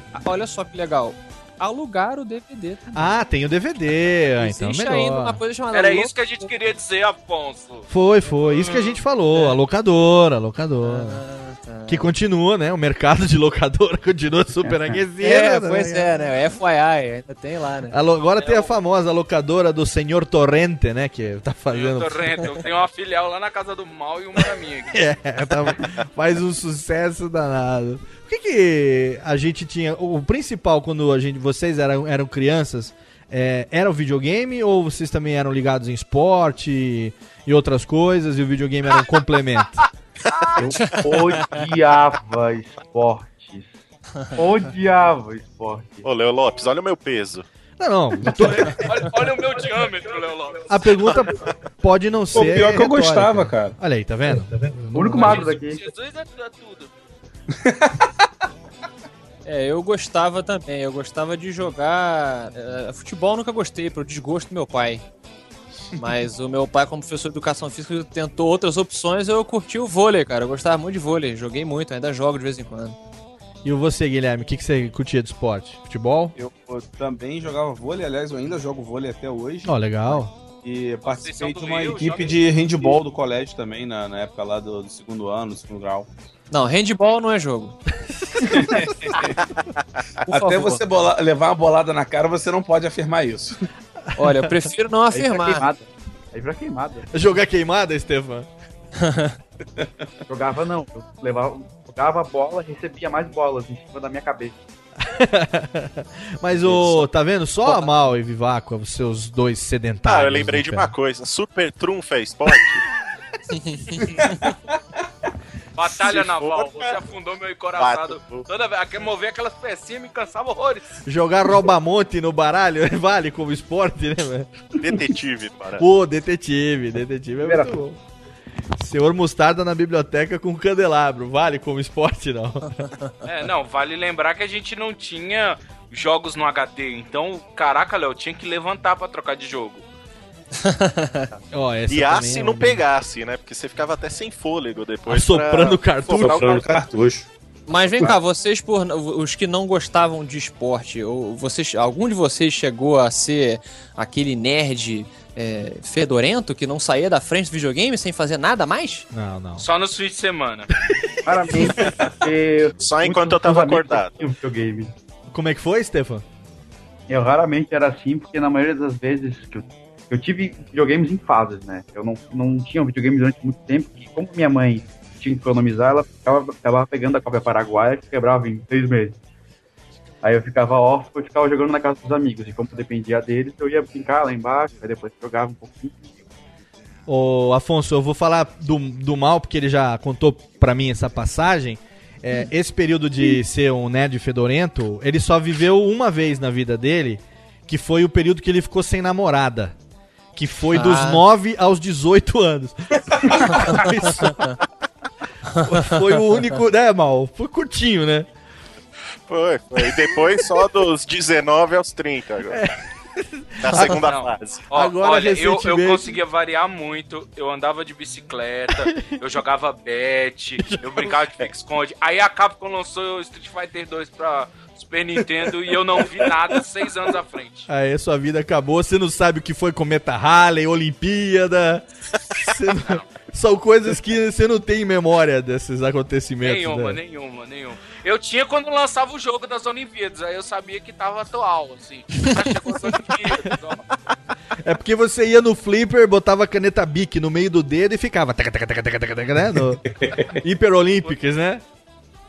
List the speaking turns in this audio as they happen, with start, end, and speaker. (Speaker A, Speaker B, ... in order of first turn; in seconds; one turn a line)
Speaker A: 0.2-2.9
Speaker B: 2.9-5.4
Speaker A: 4.4-6.5
Speaker C: 5.7-9.0
Speaker B: 7.9-11.2
Speaker A: 10.8-12.1
Speaker B: 11.9-16.1
Speaker D: 14.6-14.9
Speaker A: 15.2-17.9
Speaker B: 17.9-22.6
Speaker C: 18.4-18.7
Speaker C: 21.7-25.0
Speaker B: 24.9-39.8
Speaker C: 40.3-40.6
Speaker D: 40.6-43.7
Speaker D: 44.3-46.0
Speaker E: 46.0-47.5
Speaker B: 47.8-48.8
Speaker C: 48.4-50.9
Speaker B: 50.7-55.4
Speaker F: 52.3-53.8
Speaker D: 54.9-55.8
Speaker C: 55.1-56.9
Speaker F: 57.5-58.1
Speaker A: 59.5-65.0
Speaker A: 65.9-73.0
Speaker B: 73.6-76.3
Speaker F: 76.3-86.1
Speaker B: 79.7-80.3
Speaker C: 81.0-82.5
Speaker A: 86.5-87.8
Speaker B: 88.2-88.7
Speaker F: 88.4-89.4
Speaker F: 90.3-93.6
Speaker A: 90.4-90.8
Speaker A: 94.2-95.6
Speaker D: 95.1-97.1
Speaker B: 97.1-98.5
Speaker A: 99.0-99.3
Speaker D: 100.3-104.6
Speaker B: 105.0-110.9
Speaker A: 106.6-107.0
Speaker A: 107.6-108.1
Speaker E: 110.0-112.8
Speaker A: 113.5-114.4
Speaker F: 114.0-114.8
Speaker C: 115.8-121.0
Speaker E: 115.9-116.9
Speaker E: 117.8-118.5
Speaker B: 121.0-124.5
Speaker E: 124.8-125.8
Speaker B: 125.8-128.0
Speaker D: 127.4-127.8
Speaker B: 128.8-132.8
Speaker C: 133.2-139.8
Speaker A: 140.6-141.3
Speaker B: 141.5-142.8
Speaker E: 141.9-145.8
Speaker B: 145.1-146.5
Speaker C: 146.0-146.8
Speaker F: 146.1-147.3
Speaker A: 147.7-159.1
Speaker B: 159.1-159.7
Speaker C: 159.6-160.7
Speaker B: 160.8-161.9
Speaker D: 161.2-164.9
Speaker E: 162.8-164.2
Speaker B: 165.3-166.2
Speaker D: 167.1-179.2
Speaker D: 180.2-186.1
Speaker B: 187.1-199.7
Speaker B: 200.3-204.5
Speaker A: 200.7-201.2
Speaker B: 205.6-208.3
Speaker E: 209.3-212.6
Speaker B: 209.9-210.3
Speaker B: 212.5-213.9
Speaker E: 213.6-214.7
Speaker C: 213.9-227.7
Speaker B: 214.7-216.2
Speaker B: 220.6-221.2
Speaker B: 227.7-231.8
Speaker B: 232.3-237.0
Speaker C: 232.7-233.1
Speaker C: 236.4-243.8
Speaker B: 244.6-249.8
Speaker F: 249.8-250.4
Speaker B: 250.3-251.6